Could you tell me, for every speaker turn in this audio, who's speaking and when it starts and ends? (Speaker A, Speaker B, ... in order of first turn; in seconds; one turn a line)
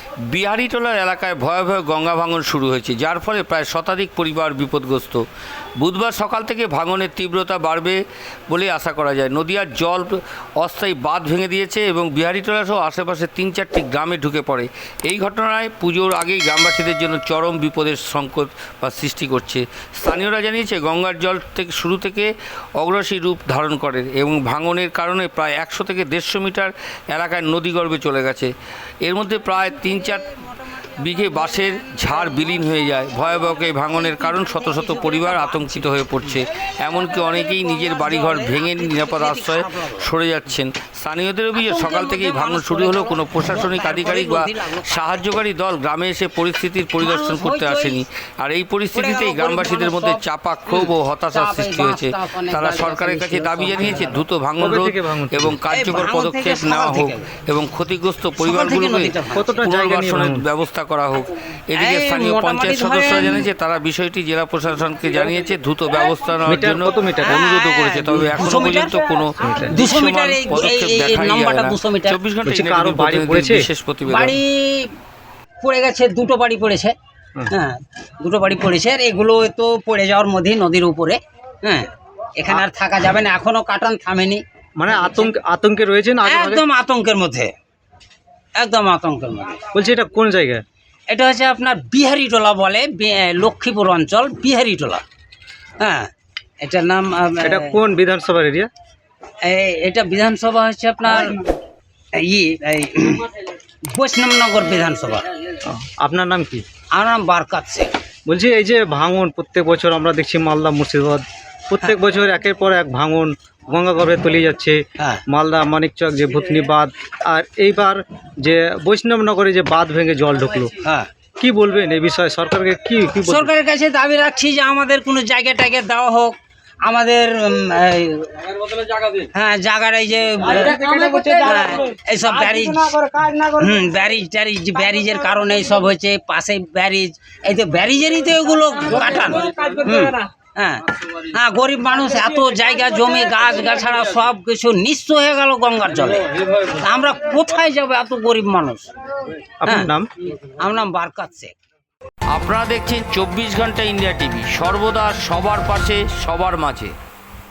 Speaker A: 0.3-5.2
Speaker A: 5.8-28.5
Speaker A: 29.0-30.3
Speaker B: 29.4-36.4
Speaker A: 31.0-74.4
Speaker B: 37.0-40.1
Speaker B: 41.5-45.2
Speaker B: 47.0-48.0
Speaker B: 48.9-54.2
Speaker C: 54.6-55.6
Speaker B: 55.7-57.3
Speaker B: 58.4-59.6
Speaker C: 59.3-60.5
Speaker B: 61.8-63.5
Speaker C: 66.5-67.4
Speaker B: 67.2-72.2
Speaker C: 68.2-68.4
Speaker C: 69.4-69.7
Speaker C: 72.4-73.7
Speaker B: 74.1-74.9
Speaker B: 75.6-76.9
Speaker B: 77.5-85.3
Speaker C: 84.8-86.6
Speaker B: 86.2-87.5
Speaker B: 88.6-89.6
Speaker C: 89.7-90.6
Speaker B: 91.1-95.0
Speaker B: 95.8-97.8
Speaker C: 97.4-98.7
Speaker B: 99.4-101.4
Speaker B: 102.1-103.3
Speaker B: 103.9-105.3
Speaker C: 105.6-106.6
Speaker B: 106.9-107.9
Speaker C: 108.3-120.7
Speaker B: 120.8-121.1
Speaker C: 121.4-123.5
Speaker B: 123.2-148.9
Speaker C: 149.6-150.1
Speaker B: 149.7-151.5
Speaker A: 152.3-156.9